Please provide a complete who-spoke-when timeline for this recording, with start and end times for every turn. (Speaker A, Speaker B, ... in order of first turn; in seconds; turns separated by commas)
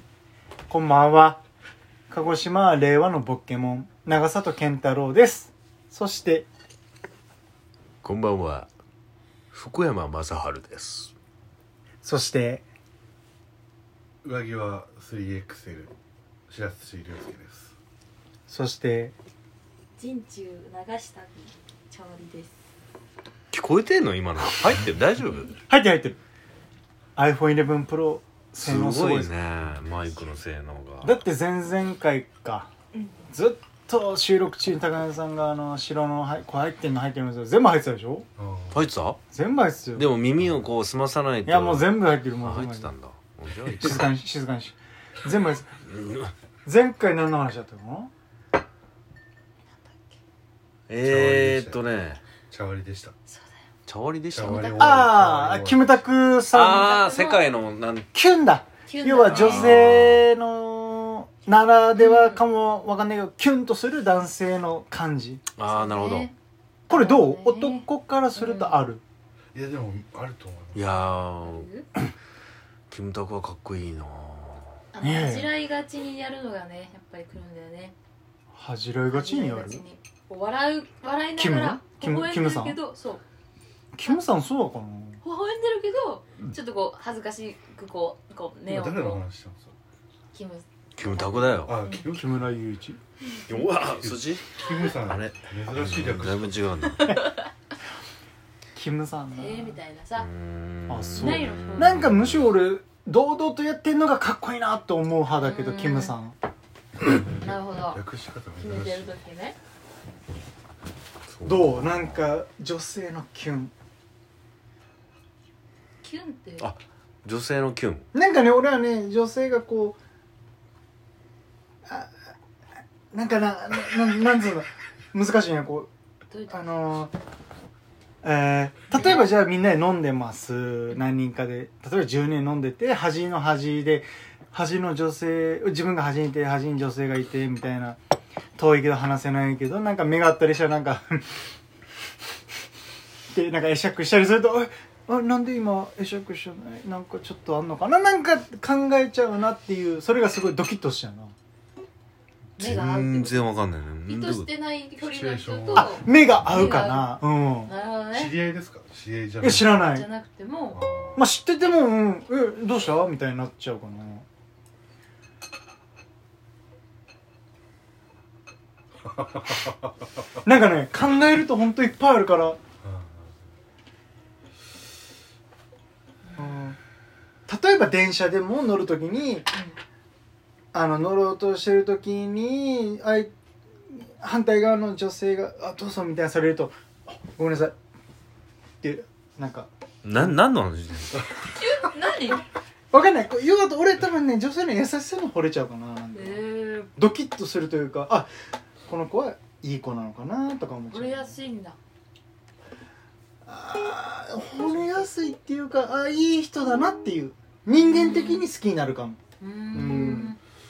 Speaker A: 0.7-1.4, Speaker A: 2.1-6.5, Speaker B: 8.0-8.7, Speaker B: 9.5-11.1, Speaker A: 12.0-12.6, Speaker C: 14.2-15.9, Speaker C: 16.5-17.7, Speaker A: 18.5-19.1, Speaker D: 20.0-22.6, Speaker B: 23.5-25.5, Speaker A: 25.7-26.2, Speaker A: 27.2-29.3, Speaker B: 28.6-31.2, Speaker A: 31.0-32.7, Speaker A: 33.3-38.3, Speaker C: 38.4-38.8, Speaker B: 38.7-39.2, Speaker A: 39.3-40.1, Speaker B: 40.0-44.0, Speaker A: 41.5-42.9, Speaker A: 43.8-45.7, Speaker B: 45.9-46.3, Speaker A: 46.6-48.1, Speaker D: 49.7-50.1, Speaker B: 50.9-52.2, Speaker C: 51.0-51.8, Speaker C: 52.5-53.1, Speaker B: 53.9-55.0, Speaker C: 54.3-56.1, Speaker A: 54.7-57.0, Speaker B: 56.5-58.1, Speaker D: 56.7-57.5, Speaker A: 58.1-65.4, Speaker D: 58.9-59.8, Speaker B: 59.3-60.2, Speaker D: 62.0-62.4, Speaker B: 65.6-66.3, Speaker D: 65.7-66.3, Speaker D: 66.9-68.8, Speaker A: 66.9-69.0, Speaker C: 69.5-71.0, Speaker B: 70.7-71.7, Speaker D: 71.4-71.9, Speaker B: 72.9-74.7, Speaker D: 74.9-78.0, Speaker A: 75.0-75.5, Speaker A: 78.5-79.8, Speaker D: 79.1-83.2, Speaker A: 81.4-82.8, Speaker A: 83.9-85.2, Speaker D: 85.2-89.2, Speaker C: 88.7-89.7, Speaker D: 90.3-92.1, Speaker B: 91.0-91.8, Speaker C: 91.7-92.5, Speaker A: 92.1-93.0, Speaker B: 93.5-97.1, Speaker C: 93.8-96.7, Speaker D: 97.0-97.4, Speaker A: 98.8-99.8, Speaker D: 99.3-100.3, Speaker B: 100.2-102.5, Speaker A: 100.9-106.3, Speaker D: 101.2-102.1, Speaker D: 105.4-106.1, Speaker C: 107.1-109.1, Speaker D: 107.4-108.0, Speaker D: 108.6-109.6, Speaker B: 111.3-112.3, Speaker A: 111.5-113.7, Speaker D: 116.0-116.7, Speaker B: 116.6-118.0, Speaker A: 118.1-120.0, Speaker A: 121.9-122.1, Speaker A: 123.1-125.9, Speaker D: 126.3-126.6, Speaker A: 126.5-127.1, Speaker A: 128.2-138.0, Speaker A: 138.6-141.4, Speaker A: 143.3-151.3, Speaker D: 152.6-153.5, Speaker B: 152.6-154.5, Speaker D: 154.1-158.4, Speaker C: 155.0-156.6, Speaker A: 155.7-157.7, Speaker C: 158.1-159.9, Speaker A: 159.4-160.1, Speaker D: 159.8-160.8, Speaker C: 160.7-161.2, Speaker A: 161.2-164.3, Speaker C: 169.1-169.7, Speaker A: 170.4-172.6, Speaker C: 172.8-173.3, Speaker D: 176.3-176.5, Speaker A: 176.4-176.8, Speaker A: 177.5-179.5, Speaker A: 180.7-183.3, Speaker A: 183.9-187.8, Speaker A: 188.8-190.4, Speaker B: 190.0-191.2, Speaker D: 191.4-192.4, Speaker A: 192.9-196.4, Speaker D: 196.1-196.9, Speaker A: 197.0-198.3, Speaker A: 198.9-201.4, Speaker D: 200.9-201.8, Speaker A: 203.4-209.2, Speaker D: 204.5-205.1, Speaker D: 207.7-208.4, Speaker D: 209.4-210.4, Speaker A: 209.7-210.3